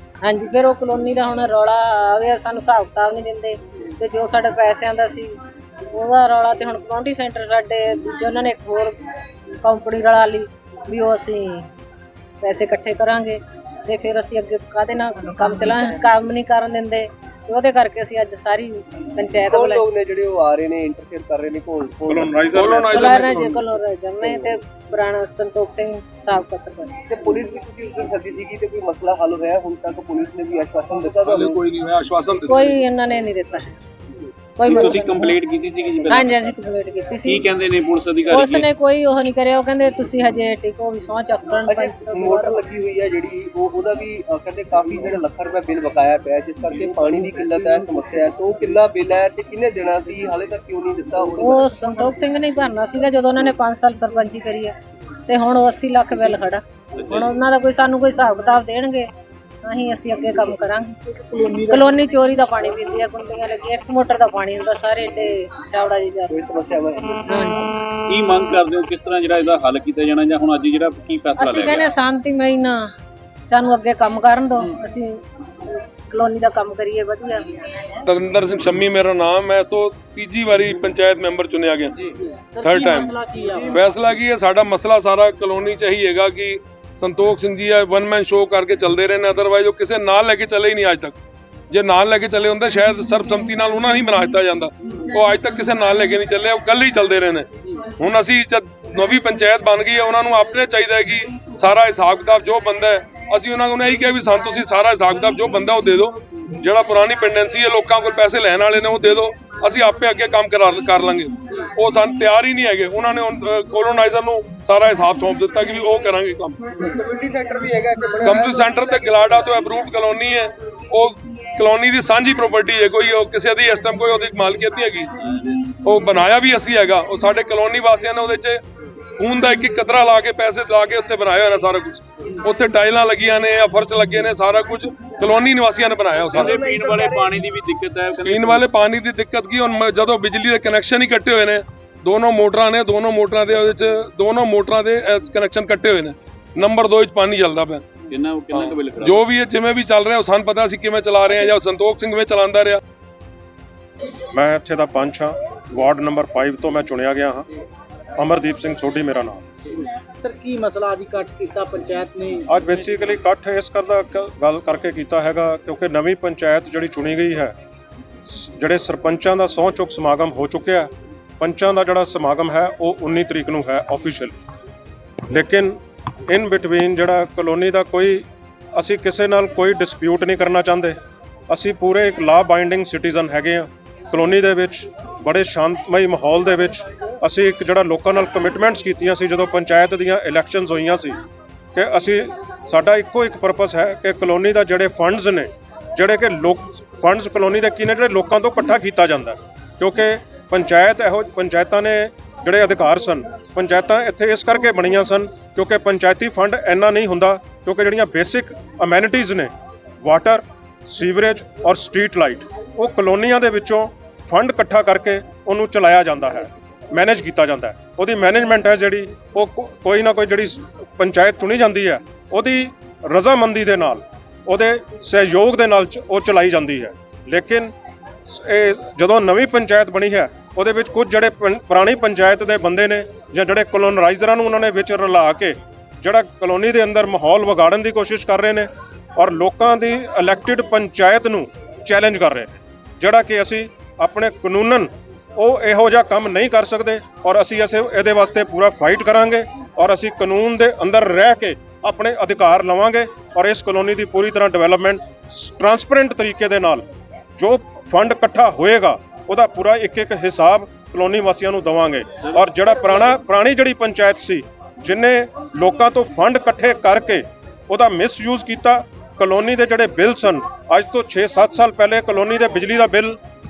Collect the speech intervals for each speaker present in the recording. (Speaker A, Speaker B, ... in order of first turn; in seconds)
Speaker A: 0.2-5.3, 5.9-9.0, 9.6-11.7, 12.4-19.8, 22.9-26.9, 32.5-33.8, 34.6-35.4, 36.1-37.6, 38.3-42.6, 51.4-54.7, 55.3-59.1, 59.6-60.9, 61.6-66.3, 67.3-67.7, 71.4-72.9, 73.5-78.0
Speaker B: 19.4-22.5, 24.2-24.6, 27.1-31.6, 34.8-35.1, 41.7-51.8, 66.3-67.2, 116.8-119.3
Speaker C: 22.1-23.2, 154.3-157.5, 158.2-159.4, 162.5-167.5, 168.2-174.3, 175.3-181.0, 181.5-191.2, 191.7-209.5, 210.0-227.7, 228.3-256.8, 257.4-273.2
Speaker D: 22.5-23.6, 31.2-32.8, 78.0-82.0, 82.6-83.2, 83.7-91.2, 91.7-97.5, 98.0-116.6, 118.2-125.1, 125.8-128.6, 129.2-136.6, 138.2-147.9, 148.5-152.8
Speaker E: 34.6-36.5, 37.2-38.7, 68.1-71.9, 136.3-138.7, 148.1-149.2
Speaker F: 61.3-61.6, 82.5-83.8, 160.2-162.5